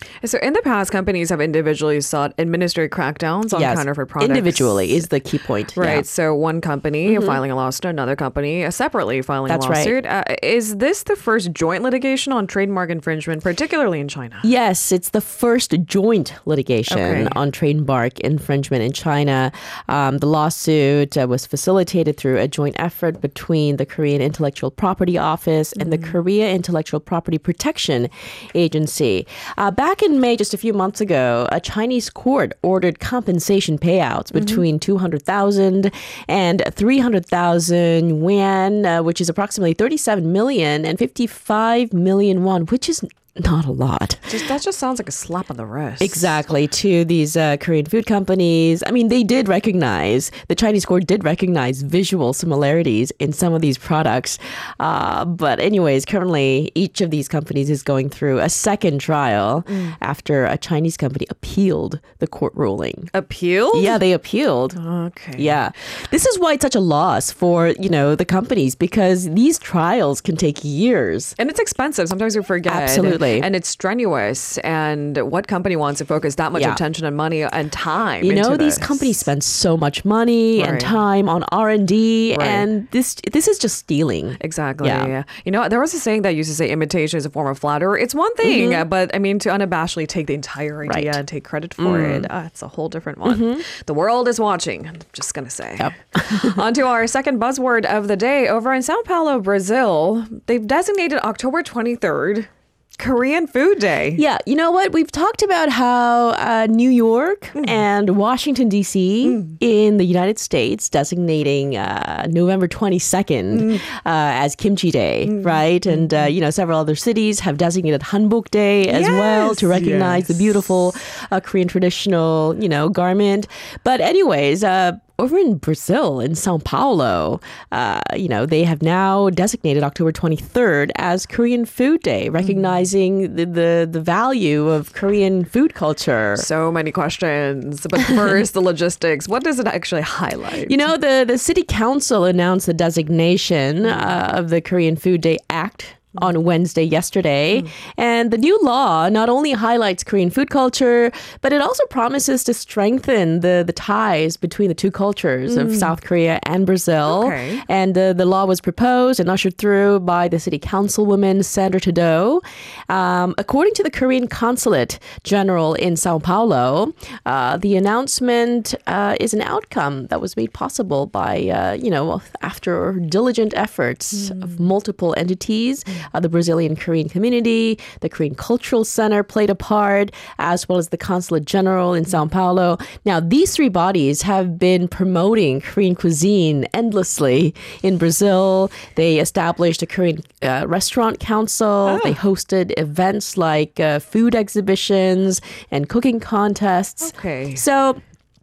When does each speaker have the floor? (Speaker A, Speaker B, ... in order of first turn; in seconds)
Speaker A: 0.2-5.1, 5.7-14.5, 16.9-17.4, 25.8-26.2, 34.3-34.6, 44.3-46.4, 59.6-60.0, 63.1-64.0, 64.7-65.6, 71.4-79.3, 80.5-81.0, 82.3-82.7, 84.4-104.2, 107.5-107.8, 109.2-109.6, 113.5-113.8, 115.2-116.3, 118.8-120.5, 132.4-132.9, 136.3-140.9, 143.8-144.2, 155.5-155.9, 157.0-157.6, 174.2-174.6, 191.8-192.2, 197.0-197.7
Speaker B: 3.5-6.0, 7.0-7.4, 9.5-9.9, 14.4-44.3, 46.0-63.1, 63.7-64.8, 65.3-71.3, 72.7-73.5, 76.5-76.8, 78.2-85.1, 88.4-88.8, 90.8-91.2, 91.8-92.3, 93.2-93.6, 95.8-96.6, 104.2-136.4, 140.6-198.0